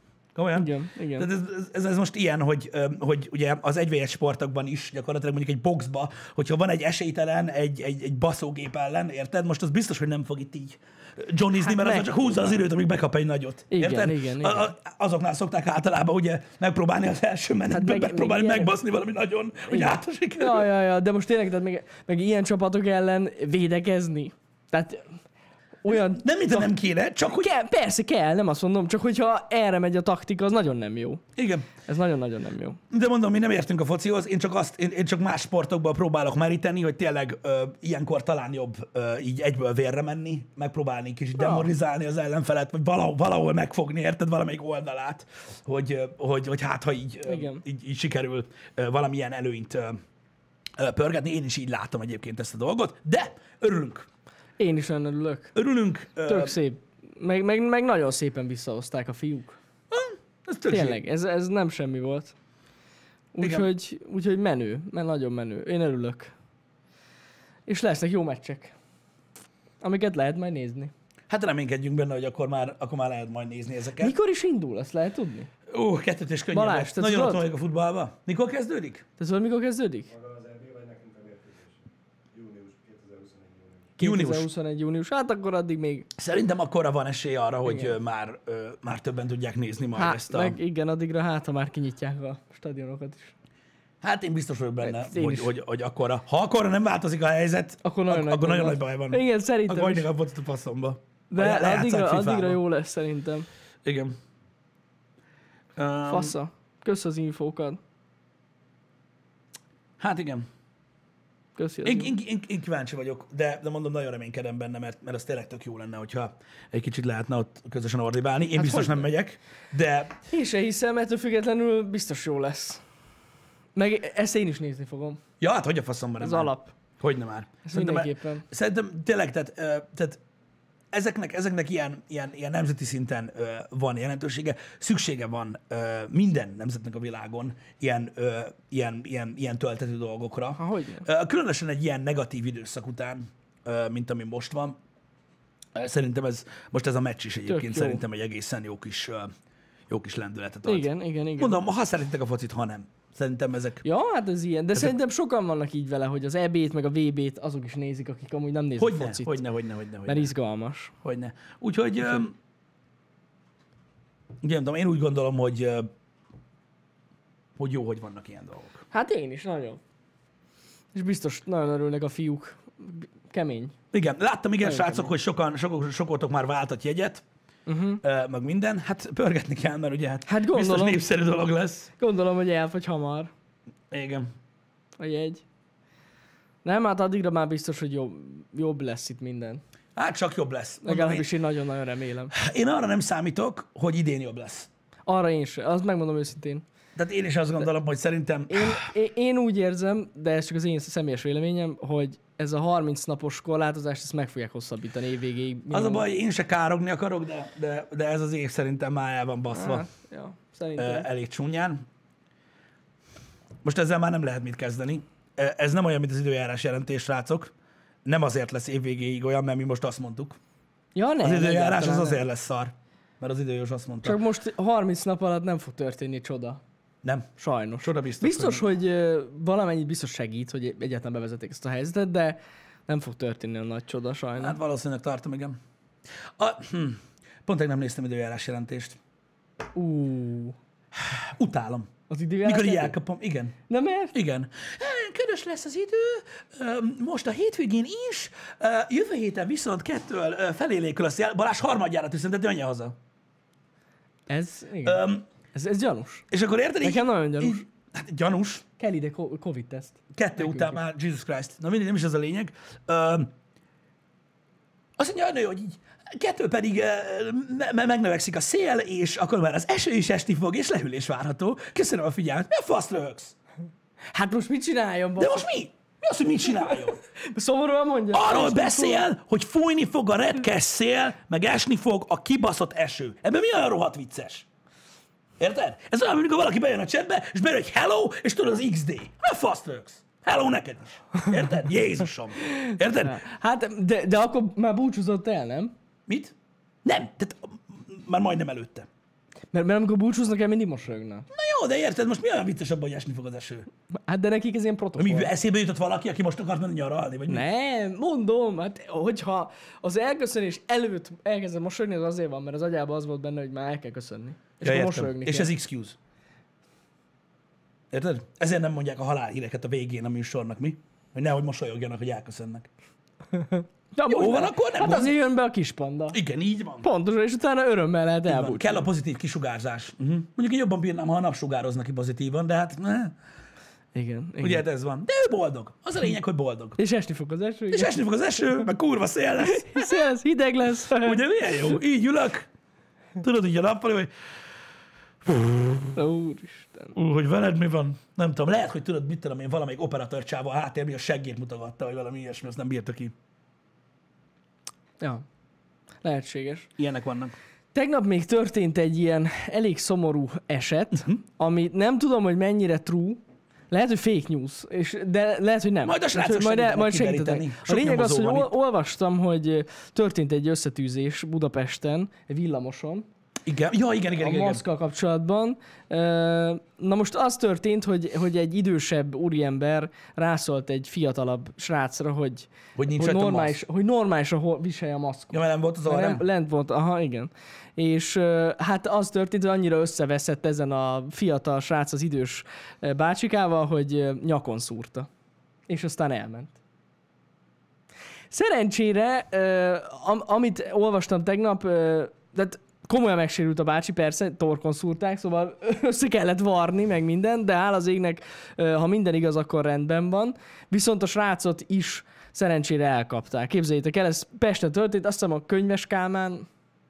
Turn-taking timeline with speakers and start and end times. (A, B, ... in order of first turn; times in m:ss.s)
0:00.4-0:20.7 A
0:00.5-0:01.3 B
0:11.6-0:12.6 B
0:13.7-0:14.7 B
0:17.7-0:18.8 B
0:19.7-0:25.1 B
0:25.8-0:26.8 B
0:25.9-0:27.5 A
0:27.3-0:31.2 B
0:31.4-0:31.7 A
0:31.9-0:32.8 B
0:32.9-0:50.0 A
0:41.4-0:41.7 B
0:47.3-0:47.6 B
0:50.8-0:54.1 A
0:54.6-0:55.6 B
0:55.6-0:56.6 A
0:56.2-0:59.6 B
0:59.9-1:01.0 A
1:00.7-1:02.3 B
1:03.4-1:06.3 B
1:03.4-1:03.7 A
1:07.7-1:08.7 B
1:09.8-1:10.9 B
1:11.3-1:14.2 A
1:14.0-1:15.5 B
1:15.7-1:19.0 A
1:16.5-1:17.5 B
1:19.2-1:20.1 B
1:20.1-1:24.0 C
1:24.0-1:24.5 A
1:24.0-1:26.1 B
1:26.2-1:30.6 A
1:27.6-1:28.0 B
1:30.0-1:33.3 B
1:34.0-1:42.6 A
1:34.8-1:35.5 B
1:37.8-1:40.1 B
1:41.3-1:43.5 B
1:43.8-1:44.2 A
1:45.8-1:46.4 A
1:46.1-1:47.8 B
1:50.0-1:50.5 A
1:51.6-1:52.1 B
1:51.8-2:00.2 A
1:58.5-1:59.1 B
2:00.3-2:02.8 B
2:03.8-2:05.2 B
2:05.4-2:10.2 A
2:06.2-2:06.7 B
2:07.6-2:08.4 B
2:10.9-2:24.8 A
2:20.6-2:21.1 B
2:25.8-2:29.3 A
2:27.5-2:28.0 B
2:29.9-2:33.8 A
2:30.6-2:31.6 B
2:33.8-2:39.4 B
2:38.8-2:40.3 A
2:40.1-2:40.9 B
2:41.0-2:42.4 A
2:44.4-2:45.9 A
2:47.6-2:48.8 A
2:48.9-2:49.8 B
2:50.9-2:53.8 B
2:53.9-2:57.2 A
2:54.6-2:55.1 B
2:57.7-2:58.0 B
2:58.0-3:01.9 A
3:00.3-3:01.0 B
3:02.0-3:03.3 B
3:03.9-3:04.3 A
3:05.0-3:05.4 B
3:06.6-3:09.6 B
3:10.0-3:11.3 A
3:10.8-3:12.3 B
3:12.3-3:14.7 A
3:15.1-3:16.6 B
3:17.0-3:18.9 A
3:18.5-3:26.1 B
3:25.7-3:29.9 A
3:29.5-3:31.1 B
3:30.8-3:31.8 A
3:33.6-3:37.5 A
3:38.0-3:40.4 A
3:41.0-3:42.2 B
3:41.2-3:44.2 A
3:44.0-3:46.6 B
3:47.0-3:47.3 A
3:47.4-3:54.6 B
3:47.8-3:48.6 A
3:54.4-3:55.6 A
3:56.4-3:59.0 A
3:59.7-4:00.6 B
4:01.0-4:01.9 A
4:02.1-4:03.0 B
4:02.4-4:03.6 A
4:03.7-4:04.2 B
4:04.1-4:13.0 A
4:14.3-4:16.3 B
4:14.8-4:15.2 A
4:16.3-4:18.6 A
4:16.8-4:17.6 B
4:18.8-4:20.8 B
4:20.1-4:23.3 A
4:25.0-4:33.4 A
4:34.1-4:35.4 B
4:35.2-4:37.0 A
4:36.7-4:39.1 B
4:38.1-4:44.5 A
4:45.4-4:53.2 A
4:52.4-4:55.7 B
4:56.1-4:56.3 A
4:56.8-4:58.9 A
4:59.5-5:01.3 B
5:01.3-5:03.7 A
5:04.0-5:05.3 B
5:05.0-5:07.4 A
5:07.3-5:15.5 B
5:14.6-5:16.0 A
5:17.9-5:22.7 A
5:23.3-5:26.2 B
5:24.1-5:25.2 A
5:26.1-5:26.9 A
5:26.8-5:28.8 B
5:28.3-5:33.2 A
5:33.9-5:34.6 B
5:34.4-5:36.8 A
5:36.8-5:38.0 B
5:37.7-5:40.1 A
5:39.4-5:41.2 B
5:41.0-5:42.5 A
5:43.2-5:44.1 A
5:45.2-5:46.0 A
5:46.0-5:47.0 B
5:47.0-5:53.2 A
5:56.0-5:56.7 B
5:56.8-5:57.4 A
5:57.7-6:13.1 B
6:00.9-6:01.2 A
6:05.8-6:08.5 A
6:13.4-6:14.6 A
6:14.2-6:35.1 B
6:22.8-6:23.6 A
6:25.3-6:26.2 A
6:35.7-6:36.6 B
6:38.3-6:56.5 B